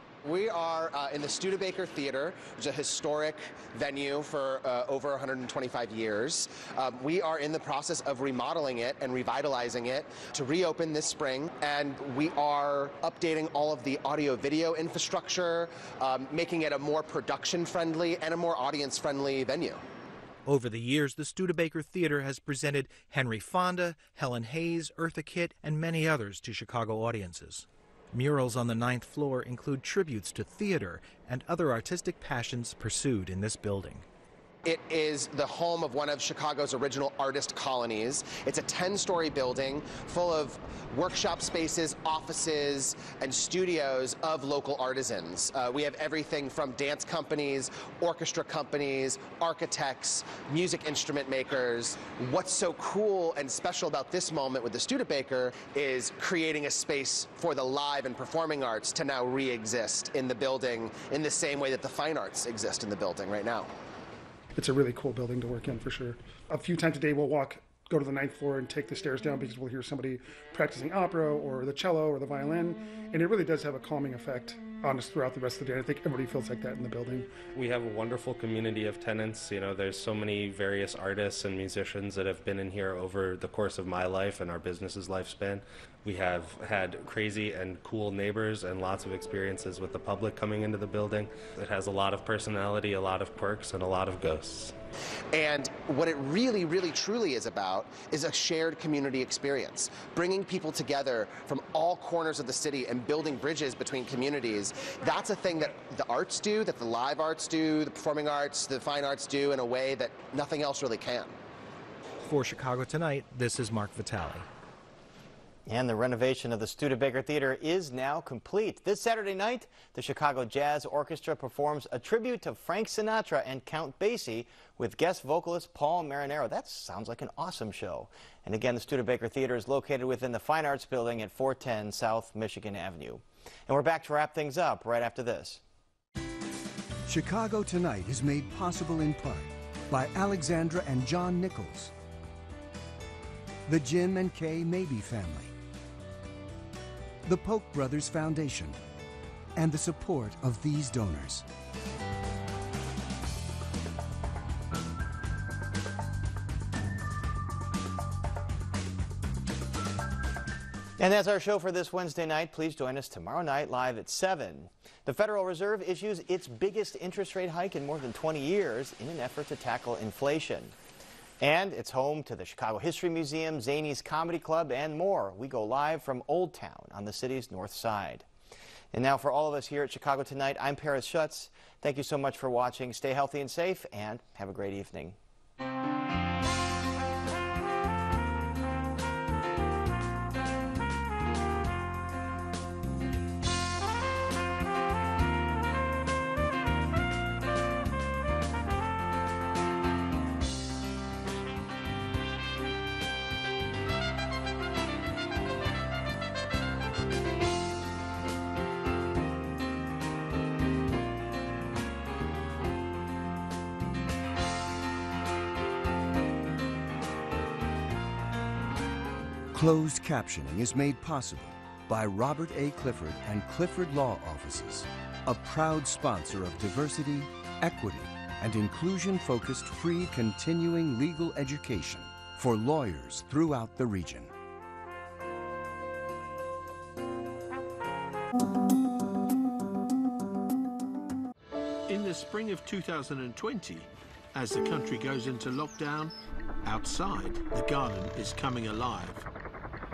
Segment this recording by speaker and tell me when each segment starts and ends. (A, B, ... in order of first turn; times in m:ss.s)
0:00.2-0:19.8 A
0:20.4-0:34.0 B
0:34.6-1:03.7 A
1:04.6-1:17.3 C
1:17.5-1:34.7 D
1:35.3-1:51.3 A
1:52.2-1:54.5 B
1:55.7-2:15.6 E
2:17.1-2:21.9 F
2:23.7-2:25.5 F
2:27.2-2:28.8 F
2:29.6-2:31.4 F
2:41.0-2:50.7 E
2:51.4-2:58.2 E
2:58.9-3:05.2 E
3:39.5-3:54.3 F
4:01.9-4:06.1 G
4:06.6-4:09.2 G